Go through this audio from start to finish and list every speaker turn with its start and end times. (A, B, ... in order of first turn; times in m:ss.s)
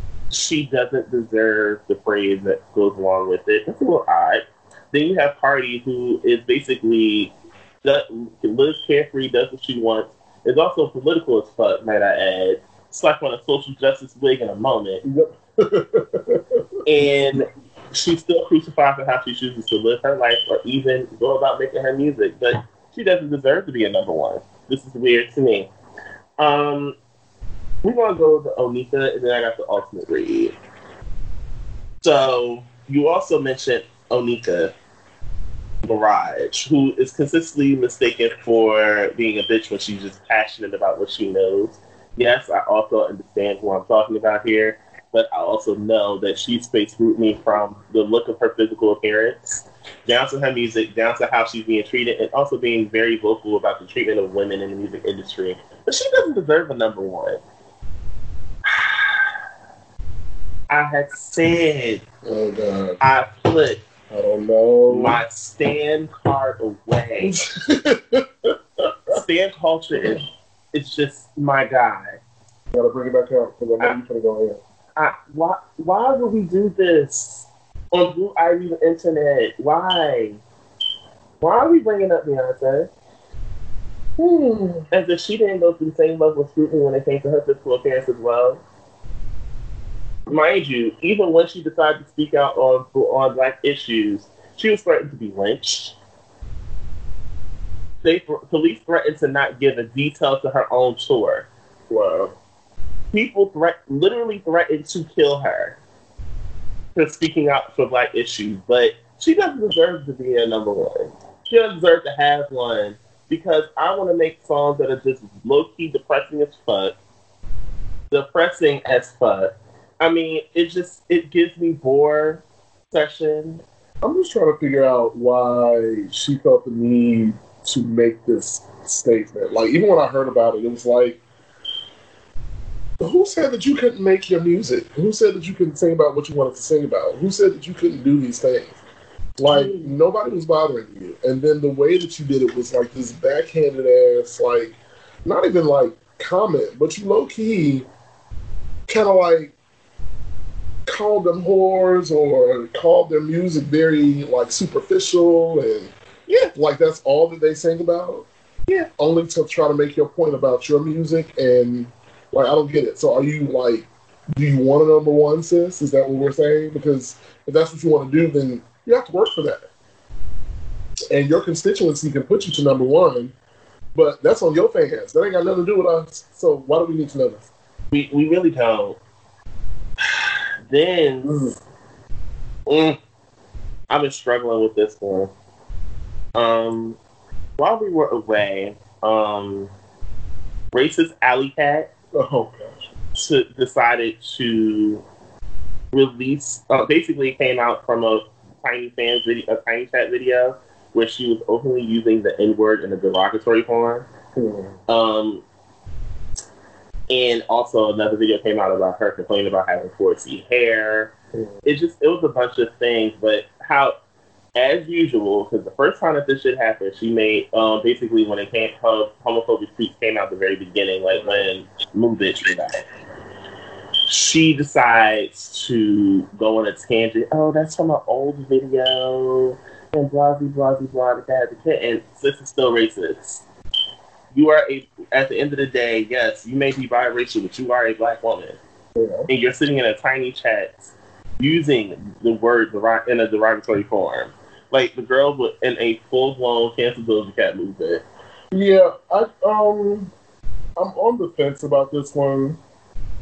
0:00.3-0:15.0 A
0:15.0-0:16.6 B
0:16.9-0:25.7 A
0:26.4-0:27.0 A
0:27.8-0:30.6 A
0:32.0-0:34.7 A
0:35.8-0:57.4 A
0:58.7-0:59.2 A
1:00.7-1:02.0 A
1:02.2-1:03.0 B
1:03.0-1:03.8 A
1:04.1-1:05.2 B
1:04.9-1:07.4 A
1:07.2-1:08.6 B
1:09.1-1:10.2 A
1:10.7-1:12.2 A
1:12.7-1:14.6 B
1:15.0-1:20.4 A
1:21.4-1:22.9 A
1:24.2-1:24.9 B
1:24.9-1:28.6 A
1:30.3-1:36.0 A
1:38.0-1:41.5 A
1:41.9-1:42.4 B
1:43.1-1:45.8 A
1:47.0-1:57.0 A
1:58.1-2:03.6 A
2:04.0-2:11.2 B
2:13.0-2:18.8 B
2:19.4-2:27.9 B
2:19.5-2:19.9 A
2:28.9-2:29.5 B
2:30.9-2:35.9 B
2:36.3-2:36.5 A
2:36.5-2:38.3 B
2:39.0-2:49.7 B
2:51.1-2:53.3 B
2:54.0-2:57.5 B
2:57.9-2:59.0 A
3:00.2-3:01.5 A
3:01.2-3:01.6 B
3:02.7-3:03.0 A
3:03.9-3:05.3 A
3:06.4-3:07.0 A
3:07.6-3:09.7 A
3:10.7-3:11.9 A
3:12.1-3:12.7 B
3:13.2-3:15.0 A
3:15.9-3:24.1 A
3:24.4-3:24.8 B
3:24.9-3:25.4 A
3:27.1-3:31.1 A
3:31.6-3:34.0 A
3:34.6-3:42.8 A
3:41.1-3:41.5 B
3:44.1-3:53.4 A
3:54.3-3:58.6 A
3:59.0-3:59.3 B
3:59.3-4:08.0 A
4:08.5-4:10.1 B
4:10.8-4:12.6 B